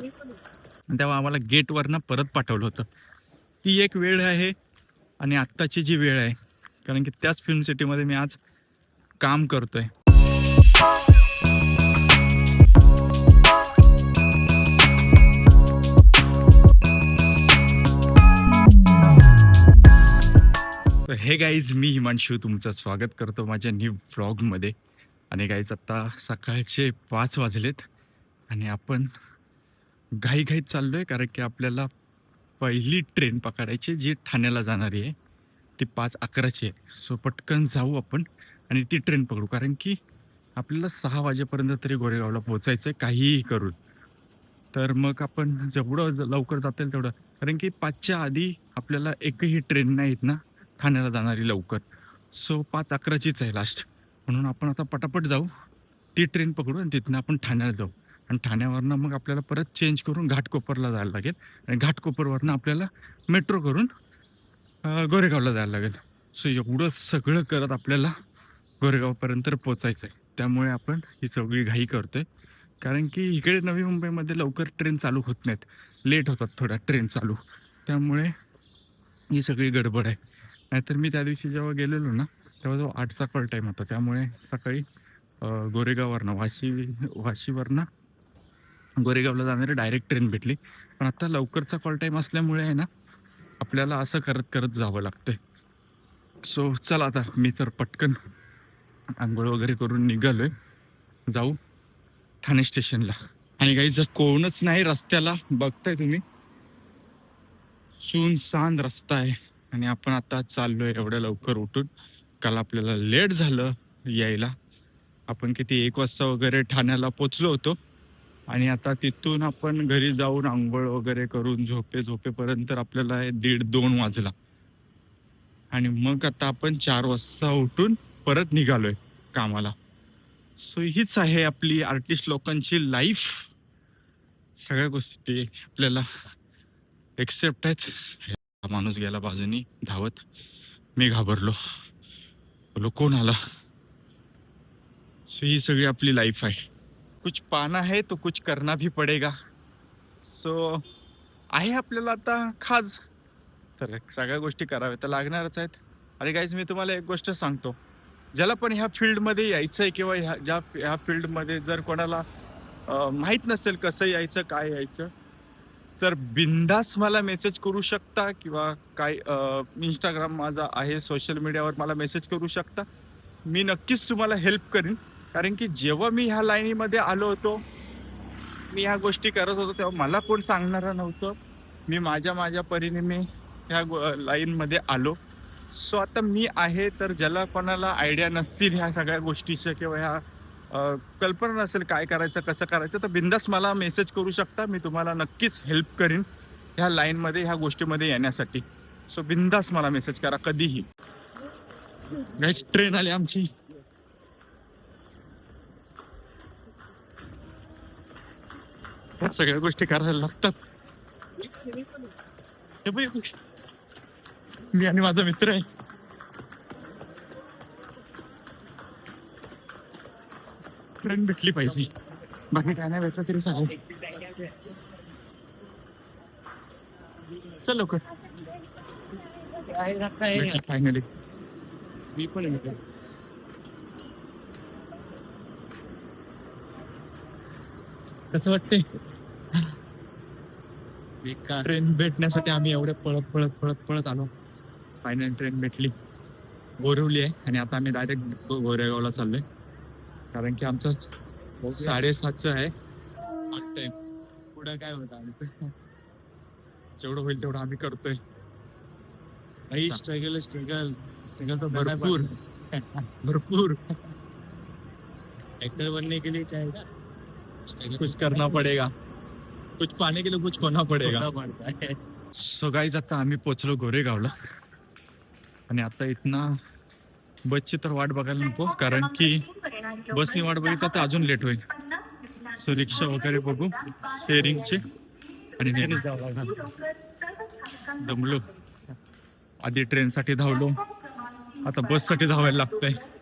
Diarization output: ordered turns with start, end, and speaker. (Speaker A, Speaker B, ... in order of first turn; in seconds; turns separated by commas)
Speaker A: 0.9-2.9, Speaker A: 3.6-4.5, Speaker A: 5.2-6.3, Speaker A: 6.8-8.4, Speaker A: 9.2-9.9, Speaker A: 21.1-24.7, Speaker A: 25.3-27.8, Speaker A: 28.5-29.1, Speaker A: 30.2-31.9, Speaker A: 32.6-35.1, Speaker A: 35.8-40.0, Speaker A: 40.6-43.7, Speaker A: 44.7-55.5, Speaker A: 56.1-63.9, Speaker A: 64.8-68.1, Speaker A: 68.8-72.2, Speaker A: 72.8-78.3, Speaker A: 79.3-80.2, Speaker A: 80.7-84.8, Speaker A: 85.4-87.9, Speaker A: 89.0-92.9, Speaker A: 93.6-95.4, Speaker A: 96.4-98.2, Speaker A: 99.2-100.5, Speaker A: 101.3-101.6, Speaker A: 102.4-106.2, Speaker A: 108.0-111.9, Speaker A: 112.4-114.5, Speaker A: 115.3-117.8, Speaker A: 118.5-124.3, Speaker A: 125.7-129.7, Speaker A: 130.6-133.5, Speaker A: 134.6-136.1, Speaker A: 137.2-140.2, Speaker A: 141.0-141.6, Speaker A: 142.7-143.4, Speaker A: 145.3-146.6, Speaker A: 147.2-149.3, Speaker A: 150.2-150.8, Speaker A: 151.5-153.0, Speaker A: 153.8-157.8, Speaker A: 158.3-162.2, Speaker A: 162.9-165.1, Speaker A: 166.0-172.8, Speaker A: 173.4-177.6, Speaker A: 178.7-185.2, Speaker A: 185.7-200.8, Speaker A: 202.2-203.5, Speaker A: 209.2-210.6, Speaker A: 212.8-213.3, Speaker A: 214.7-215.6, Speaker A: 221.0-221.9, Speaker A: 222.5-223.8, Speaker B: 224.1-224.4, Speaker A: 227.6-228.0, Speaker B: 229.6-230.6, Speaker A: 230.3-231.1, Speaker B: 232.2-232.8, Speaker A: 238.3-238.8, Speaker B: 241.2-241.7, Speaker A: 241.6-244.3, Speaker A: 245.0-245.9, Speaker A: 246.8-249.4, Speaker A: 250.3-251.0, Speaker B: 251.6-251.9, Speaker A: 251.7-252.7, Speaker A: 253.5-253.9, Speaker A: 254.5-255.7, Speaker A: 256.9-258.2, Speaker B: 259.7-263.0, Speaker A: 261.7-262.3, Speaker A: 263.2-263.8, Speaker B: 265.6-266.8, Speaker B: 267.7-268.6, Speaker A: 267.9-268.9, Speaker A: 269.8-271.3, Speaker B: 271.0-272.0, Speaker A: 272.3-274.3, Speaker A: 275.7-276.5, Speaker A: 277.5-279.5, Speaker A: 280.1-281.7, Speaker A: 282.5-284.9, Speaker A: 285.6-286.2, Speaker B: 285.8-286.7, Speaker A: 287.9-288.5, Speaker A: 289.6-290.8, Speaker A: 291.6-293.0